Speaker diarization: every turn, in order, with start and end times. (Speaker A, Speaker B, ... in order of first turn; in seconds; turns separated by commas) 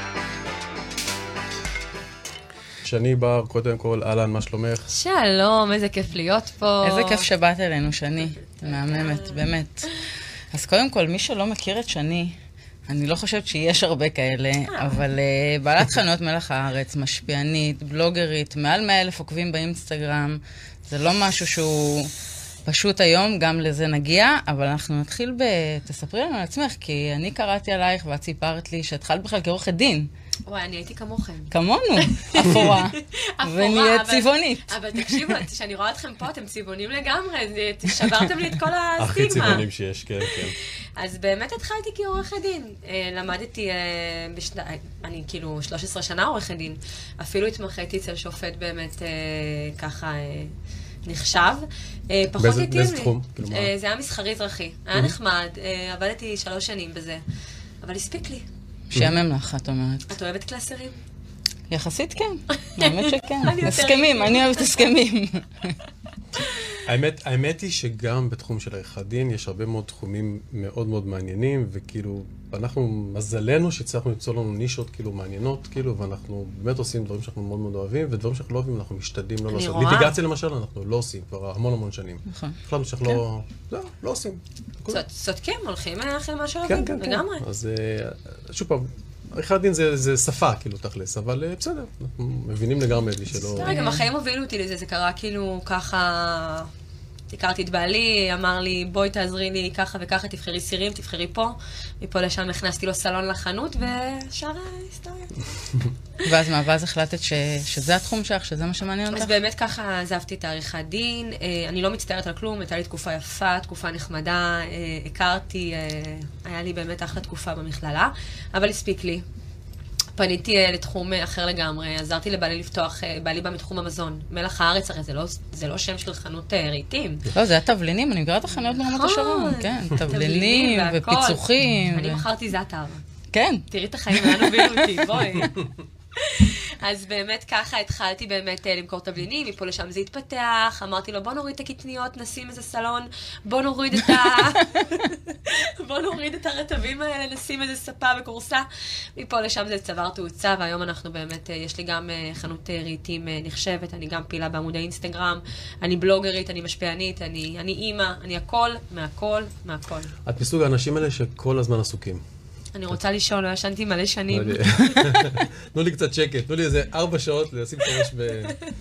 Speaker A: 2.8-4.9, Speaker B: 4.9-7.2, Speaker C: 6.8-10.0, Speaker B: 8.6-9.4, Speaker C: 10.5-12.3, Speaker C: 12.9-22.1, Speaker B: 14.7-15.0, Speaker C: 22.6-30.1, Speaker B: 30.4-39.7, Speaker C: 31.5-35.4, Speaker A: 32.4-32.8, Speaker A: 39.0-40.5, Speaker B: 41.0-50.5, Speaker B: 51.0-57.2, Speaker A: 52.4-53.7, Speaker B: 57.8-58.5, Speaker C: 58.9-60.1, Speaker A: 58.9-59.2, Speaker B: 60.1-61.0, Speaker C: 61.7-65.8, Speaker B: 62.5-64.9, Speaker B: 66.4-66.8, Speaker A: 66.8-85.0, Speaker B: 79.5-80.2, Speaker C: 82.3-82.6, Speaker B: 84.9-87.4, Speaker A: 86.6-93.7, Speaker C: 93.4-94.0, Speaker B: 93.5-96.7, Speaker B: 97.3-105.5, Speaker C: 106.2-109.4, Speaker B: 109.1-119.2, Speaker B: 120.2-127.3, Speaker C: 127.3-132.2, Speaker B: 128.5-133.0, Speaker C: 133.3-135.5, Speaker B: 133.7-135.6, Speaker B: 136.1-160.1, Speaker A: 160.2-162.2, Speaker B: 162.7-165.0, Speaker A: 164.3-168.6